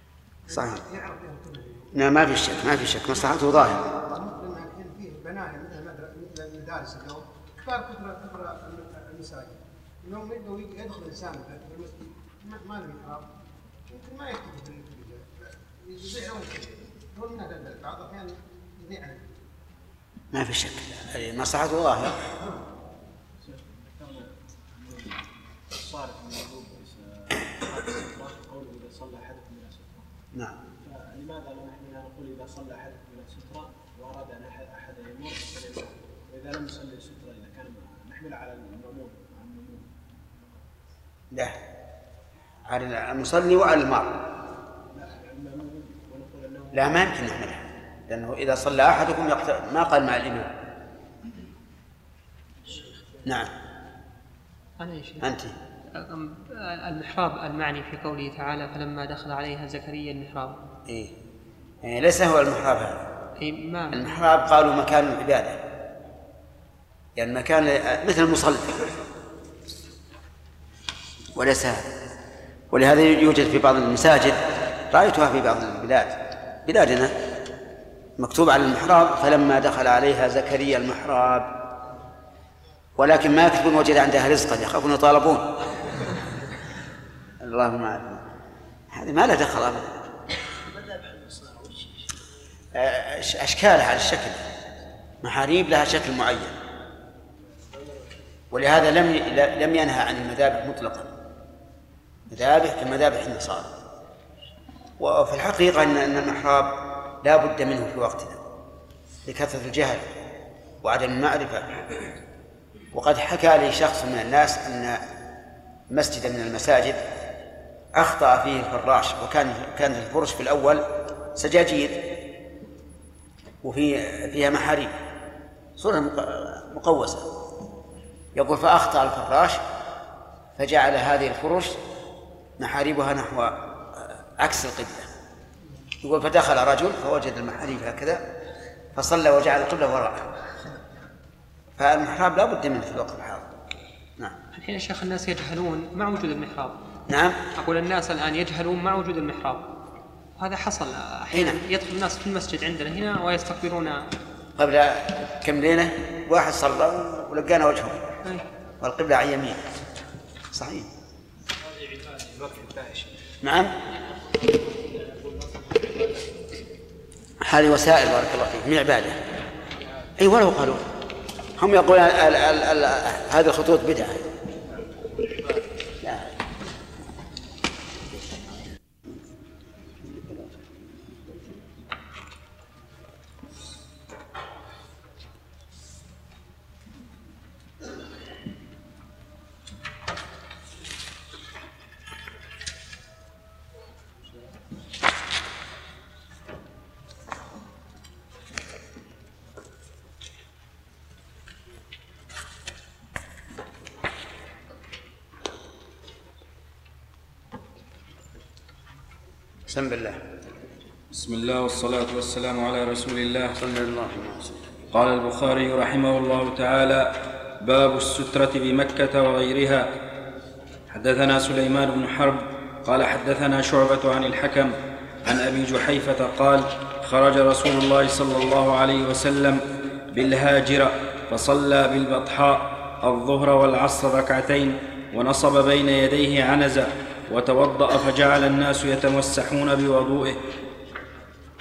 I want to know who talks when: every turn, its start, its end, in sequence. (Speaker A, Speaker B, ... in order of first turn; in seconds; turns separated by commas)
Speaker A: 0.5-13.3, Speaker B: 0.5-0.8, Speaker B: 1.9-3.8, Speaker A: 13.9-19.4, Speaker B: 20.3-22.1, Speaker A: 22.3-22.6, Speaker C: 23.4-30.1, Speaker C: 30.8-39.9, Speaker B: 42.7-44.1, Speaker C: 44.9-47.0, Speaker B: 46.7-50.5, Speaker C: 52.6-53.0, Speaker B: 53.2-53.5, Speaker D: 54.8-55.3, Speaker B: 55.2-55.5, Speaker D: 55.9-60.6, Speaker B: 60.9-61.1, Speaker B: 61.8-63.0, Speaker D: 63.4-64.1, Speaker B: 63.9-65.6, Speaker B: 67.2-68.9, Speaker B: 71.3-71.9, Speaker B: 72.7-74.4, Speaker B: 74.9-77.1, Speaker B: 78.2-81.5, Speaker B: 83.0-85.5, Speaker B: 87.4-88.2, Speaker B: 88.9-89.9, Speaker B: 92.7-94.4, Speaker B: 95.2-96.5, Speaker B: 98.5-101.1, Speaker B: 102.3-103.7, Speaker B: 105.0-108.4, Speaker B: 109.2-110.1, Speaker B: 110.8-111.7, Speaker B: 112.9-115.0, Speaker B: 115.9-117.0, Speaker B: 117.9-122.0, Speaker B: 123.6-124.9, Speaker B: 125.8-127.2, Speaker B: 128.3-129.6, Speaker B: 130.6-131.8, Speaker B: 132.6-135.1, Speaker B: 136.0-138.2, Speaker B: 138.9-140.3, Speaker B: 141.8-143.5, Speaker D: 144.5-146.7, Speaker B: 147.1-147.4, Speaker D: 147.6-149.6, Speaker D: 150.4-154.0, Speaker B: 151.3-151.6, Speaker B: 154.6-158.0, Speaker B: 158.8-159.6, Speaker B: 160.5-160.9, Speaker B: 163.4-163.7, Speaker B: 167.4-169.2, Speaker B: 170.2-170.8, Speaker B: 171.6-174.2, Speaker B: 176.0-176.3, Speaker B: 180.1-180.4, Speaker B: 209.7-210.2, Speaker E: 211.1-213.6, Speaker B: 213.6-214.5, Speaker E: 214.9-217.1, Speaker E: 217.6-219.8, Speaker E: 220.9-229.6, Speaker E: 230.1-240.4